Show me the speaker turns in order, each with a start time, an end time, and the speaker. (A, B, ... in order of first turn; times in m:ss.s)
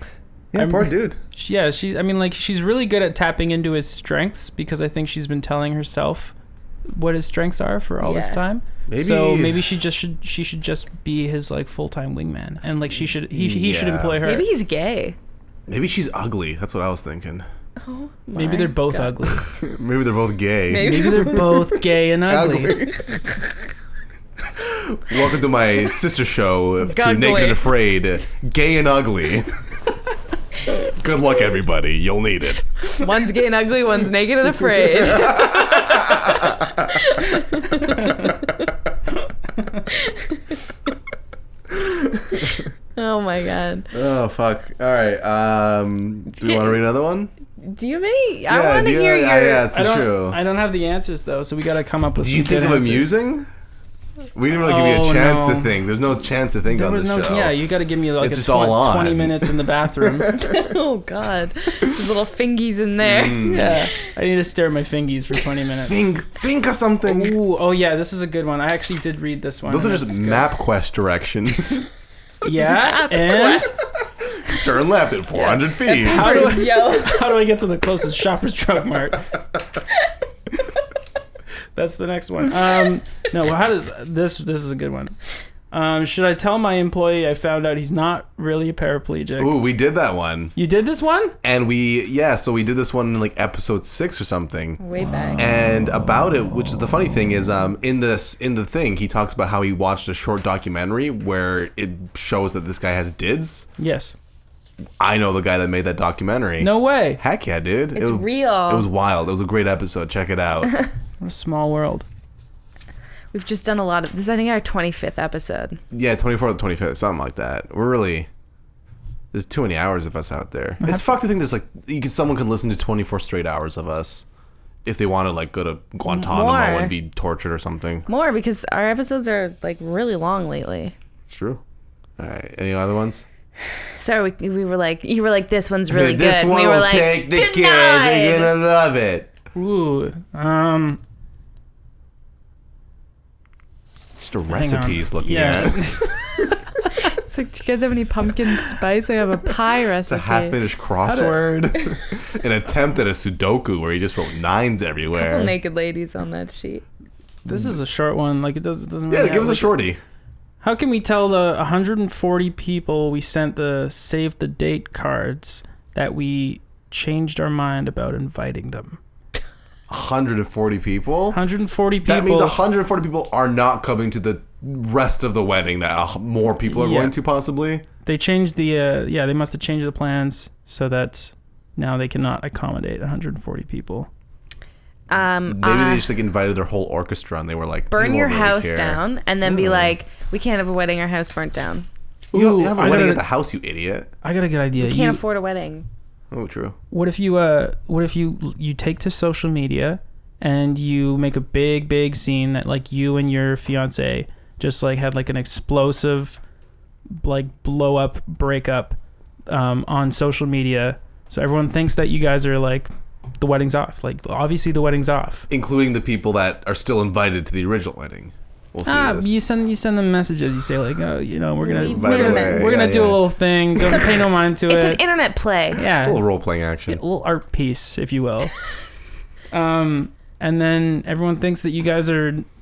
0:00.5-0:01.2 A
0:00.6-0:06.4 B
0:06.9-0:14.5 B
0:08.0-0:08.4 C
0:08.9-0:09.6 A
0:13.3-0:14.2 A
0:14.2-0:15.2 C
0:15.7-0:17.5 A
0:17.8-0:19.2 C
0:18.4-0:19.5 B
0:19.5-0:21.6 A
0:20.7-0:21.7 C
0:20.8-0:22.8 B
0:22.3-0:23.1 A
0:22.8-0:23.2 C
0:24.6-0:29.5 A
0:26.8-0:27.8 C
0:30.8-0:32.8 A
0:33.0-0:38.7 C
0:35.1-0:36.9 A
0:38.0-0:38.2 B
0:39.9-0:40.6 C
0:42.4-0:43.9 C
0:43.9-0:47.3 A
0:46.4-0:46.8 C
0:47.6-0:49.7 C
0:48.5-0:50.4 A
0:49.7-0:53.1 B
0:52.2-0:53.5 A
0:54.4-0:57.6 A
0:54.6-0:55.8 B
0:56.7-1:00.3 B
0:58.2-0:59.5 A
1:00.3-1:03.9 C
1:03.0-1:03.8 A
1:03.5-1:06.1 B
1:05.9-1:07.4 A
1:07.0-1:10.4 B
1:09.7-1:11.9 A
1:12.4-1:13.7 B
1:12.6-1:13.9 C
1:14.4-1:16.4 A
1:15.4-1:17.3 C
1:16.0-1:19.3 B
1:21.8-1:25.2 B
1:25.7-1:29.6 B
1:29.4-1:30.5 A
1:30.6-1:31.4 B
1:31.4-1:34.8 A
1:34.8-1:35.4 C
1:35.0-1:35.5 B
1:35.4-1:43.7 A
1:43.8-1:44.2 B
1:45.0-1:50.8 A
1:46.6-1:47.2 B
1:48.0-1:48.9 C
1:51.2-1:52.1 B
1:53.3-1:55.8 C
1:55.9-1:58.3 A
1:59.3-2:04.2 A
2:00.8-2:01.2 B
2:04.8-2:08.1 A
2:06.1-2:06.9 C
2:08.1-2:10.9 C
2:11.3-2:11.6 A
2:12.2-2:13.3 A
2:14.0-2:18.5 C
2:15.9-2:19.3 A
2:19.6-2:21.0 B
2:24.2-2:25.8 A
2:24.5-2:26.9 B
2:27.1-2:30.6 C
2:30.1-2:35.6 A
2:31.1-2:31.4 B
2:35.1-2:36.8 C
2:37.4-2:39.8 B
2:39.1-2:40.0 A
2:40.6-2:49.0 B
2:49.9-2:51.4 A
2:51.3-2:52.6 B
2:52.0-2:57.9 A
2:56.7-2:57.2 B
2:58.0-3:04.1 B
3:05.1-3:06.1 C
3:05.5-3:09.9 A
3:07.9-3:11.9 C
3:12.3-3:13.3 B
3:12.3-3:14.1 A
3:14.2-3:15.2 B
3:14.8-3:15.9 C
3:16.3-3:16.8 A
3:16.9-3:26.4 B
3:27.2-3:29.0 B
3:29.5-3:35.5 B
3:35.5-3:39.4 A
3:38.9-3:45.0 B
3:41.6-3:42.7 C
3:41.9-3:43.3 A
3:44.7-3:45.8 C
3:45.8-3:46.2 B
3:45.9-3:47.0 A
3:46.9-3:48.5 B
3:49.5-3:52.5 B